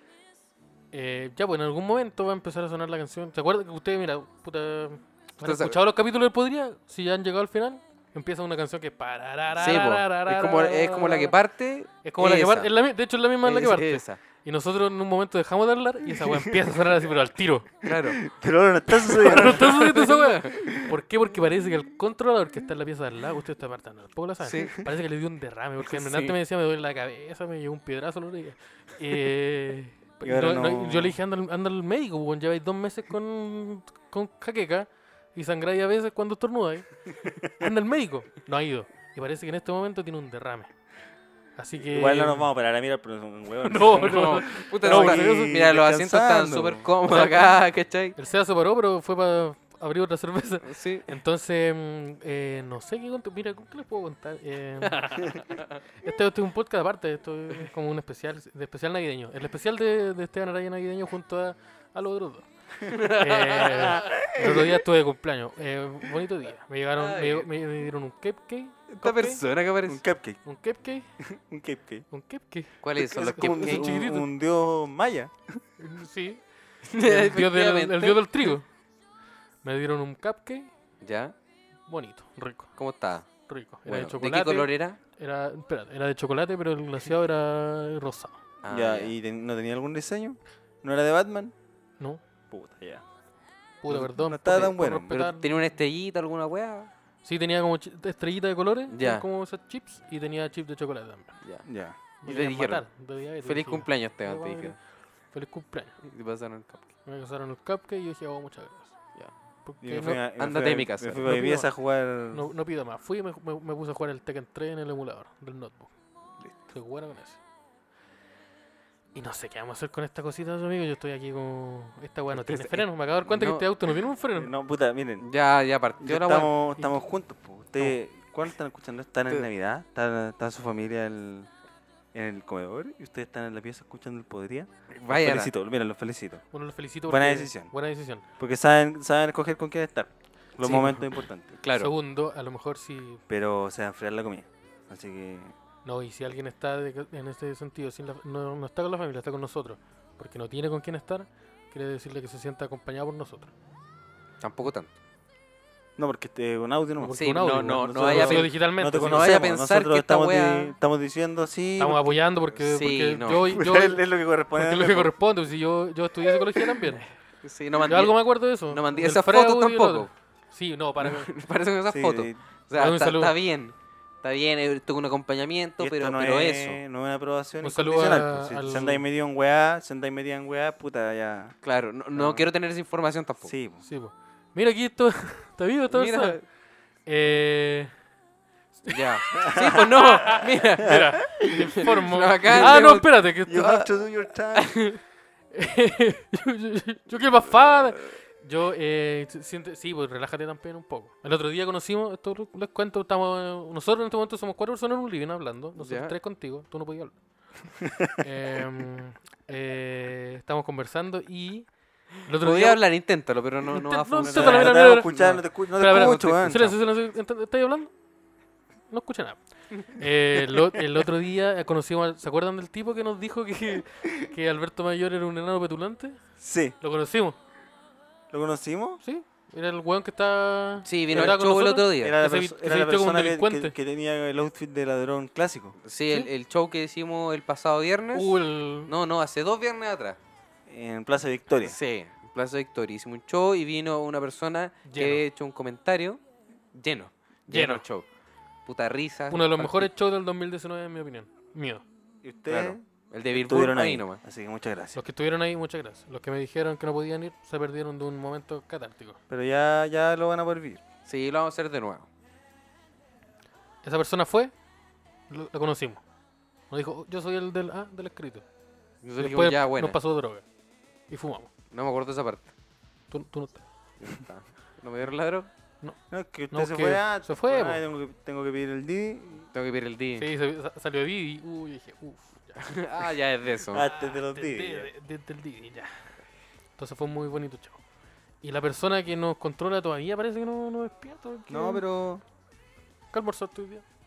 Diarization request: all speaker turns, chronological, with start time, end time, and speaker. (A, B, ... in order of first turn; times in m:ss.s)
0:00.9-0:11.4 A
0:05.4-0:05.8 B
0:09.5-0:12.7 B
0:12.0-0:17.7 A
0:13.4-0:14.2 B
0:16.2-0:16.6 C
0:17.8-0:18.2 B
0:17.9-0:19.9 C
0:19.1-0:40.7 A
0:19.4-0:20.6 B
0:24.4-0:24.9 B
0:25.8-0:26.4 B
0:30.2-0:31.2 C
0:41.6-0:42.4 A
0:41.8-0:46.9 C
0:43.6-0:45.6 A
0:43.9-0:48.2 B
0:47.1-0:47.5 A
0:48.2-1:09.4 A
0:50.6-0:51.1 B
0:55.0-0:55.7 B
1:02.9-1:04.2 B
1:04.0-1:04.6 C
1:07.0-1:07.5 B
1:09.0-1:10.0 B
1:09.9-1:10.4 C
1:10.4-1:11.1 A
1:11.2-1:12.1 C
1:12.1-1:14.3 A
1:12.8-1:13.9 B
1:13.0-1:15.6 C
1:15.8-1:16.4 A
1:16.9-1:18.2 B
1:17.0-1:18.7 A
1:19.6-1:20.7 A
1:21.0-1:21.4 B
1:21.9-1:22.7 A
1:22.8-1:23.3 B
1:23.5-1:28.4 A
1:23.9-1:25.0 B
1:28.6-1:29.1 B
1:28.7-1:31.5 C
1:32.5-1:33.0 C
1:33.8-1:35.4 A
1:33.9-1:35.1 C
1:34.6-1:36.9 B
1:37.2-1:41.4 A
1:38.9-1:39.2 B
1:41.4-1:41.7 B
1:41.7-1:42.0 C
1:42.2-1:42.8 B
1:42.2-1:44.8 A
1:43.4-1:44.8 B
1:45.3-1:46.0 A
1:46.0-1:46.9 B
1:47.1-1:49.0 A
1:49.6-1:50.2 A
1:49.8-1:52.5 C
1:50.4-1:51.3 B
1:51.2-1:51.7 A
1:52.3-1:55.9 A
1:56.7-1:57.4 A
1:59.2-2:04.5 A
2:02.3-2:03.7 B
2:04.4-2:05.3 C
2:05.2-2:06.5 B
2:06.0-2:11.5 C
2:12.1-2:16.4 C
2:15.0-2:15.5 B
2:16.5-2:18.2 A
2:17.1-2:17.7 C
2:18.4-2:21.5 C
2:20.6-2:21.1 A
2:21.6-2:21.9 B
2:21.7-2:23.2 A
2:23.3-2:25.5 C
2:25.8-2:33.5 A
2:34.4-2:34.9 B
2:36.0-2:42.2 C
2:37.0-2:39.3 A
2:37.1-2:40.7 B
2:41.8-2:44.0 A
2:42.6-2:43.5 B
2:43.4-2:45.1 C
2:44.5-2:47.1 A
2:47.4-2:50.1 B
2:47.9-2:51.3 A
2:51.0-2:56.8 B
2:51.9-2:52.4 C
2:52.8-2:53.3 A
2:55.8-3:01.6 C
2:57.6-2:59.0 A
3:01.6-3:03.5 B
3:02.2-3:02.4 C
3:03.4-3:03.8 C
3:03.8-3:06.4 A
3:05.9-3:06.4 B
3:07.1-3:07.9 A
3:08.9-3:11.0 B
3:09.4-3:10.3 C
3:10.2-3:13.8 A
3:10.8-3:11.8 C
3:11.8-3:13.8 B
3:12.5-3:12.9 C
3:13.5-3:14.8 C
3:14.5-3:15.0 B
3:15.5-3:27.2 A
3:25.8-3:26.1 B
3:27.7-3:31.7 A
3:32.2-3:32.8 A
3:32.4-3:36.2 B
3:33.7-3:35.2 A
3:34.2-3:36.8 C
3:35.7-3:37.9 A
3:38.9-3:46.2 A
3:46.4-3:46.8 C
3:46.8-3:47.4 A
3:48.3-3:49.0 C
3:49.0-3:53.7 A
3:50.8-3:52.2 B
3:52.0-3:55.8 C
3:55.8-4:00.2 B
3:58.1-3:58.9 A
4:00.7-4:01.8 C
4:01.6-4:06.2 B
4:04.8-4:05.2 A
4:06.7-4:08.1 B
4:07.5-4:07.8 A
4:08.6-4:09.9 B
4:09.3-4:11.8 A
4:12.2-4:15.0 C
4:12.5-4:14.2 B
4:15.0-4:19.2 A
4:19.3-4:20.8 C
4:21.1-4:22.1 B
4:23.8-4:24.5 A
4:25.3-4:26.0 A
4:26.7-4:28.4 A
4:29.0-4:30.0 B
4:29.2-4:30.4 A
4:31.1-4:31.5 A
4:31.7-4:32.5 B
4:33.1-4:33.6 A
4:34.0-4:35.5 B
4:36.1-4:39.5 C
4:36.5-4:37.8 A
4:39.5-4:40.3 B
4:40.2-4:42.8 A
4:42.6-4:43.8 B
4:43.7-4:44.9 C
4:43.8-4:46.1 A
4:46.8-4:47.8 A
4:48.4-4:51.8 A
4:51.5-4:52.2 C
4:53.1-4:53.8 A